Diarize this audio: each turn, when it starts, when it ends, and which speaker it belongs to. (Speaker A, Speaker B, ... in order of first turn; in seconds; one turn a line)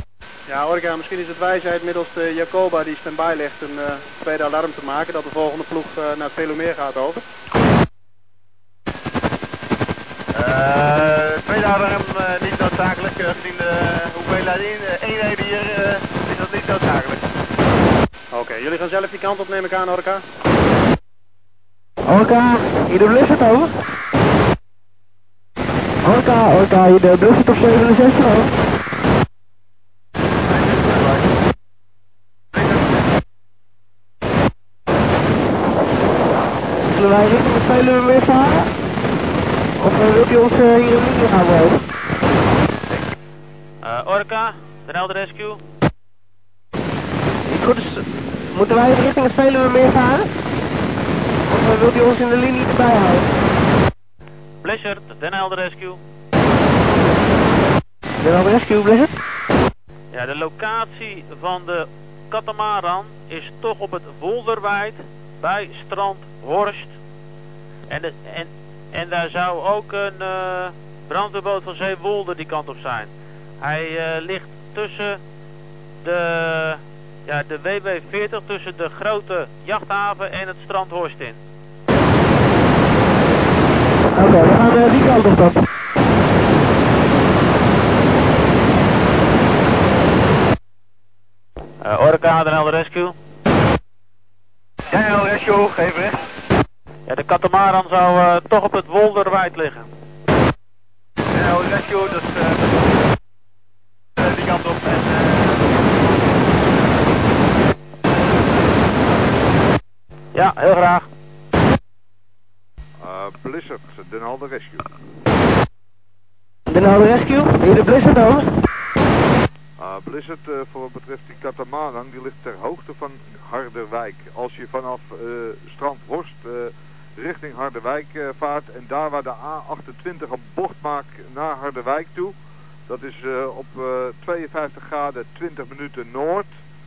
Speaker A: 0.5-7.2
Speaker B: 10.3-17.2
Speaker A: 18.3-20.2
Speaker C: 22.1-23.7
Speaker C: 26.0-28.5
Speaker C: 36.9-38.7
Speaker C: 39.8-41.9
Speaker D: 43.8-45.6
Speaker C: 47.4-50.3
Speaker C: 51.4-53.3
Speaker D: 54.6-56.0
Speaker C: 58.2-59.1
Speaker D: 60.1-66.9
Speaker D: 67.9-75.2
Speaker D: 76.0-81.4
Speaker C: 84.1-85.6
Speaker D: 91.8-93.2
Speaker B: 94.9-96.2
Speaker D: 97.1-99.9
Speaker B: 101.3-102.7
Speaker B: 104.2-105.6
Speaker D: 110.3-111.1
Speaker E: 113.0-114.9
Speaker C: 116.7-118.5
Speaker E: 119.8-132.3
Speaker E: 132.9-136.5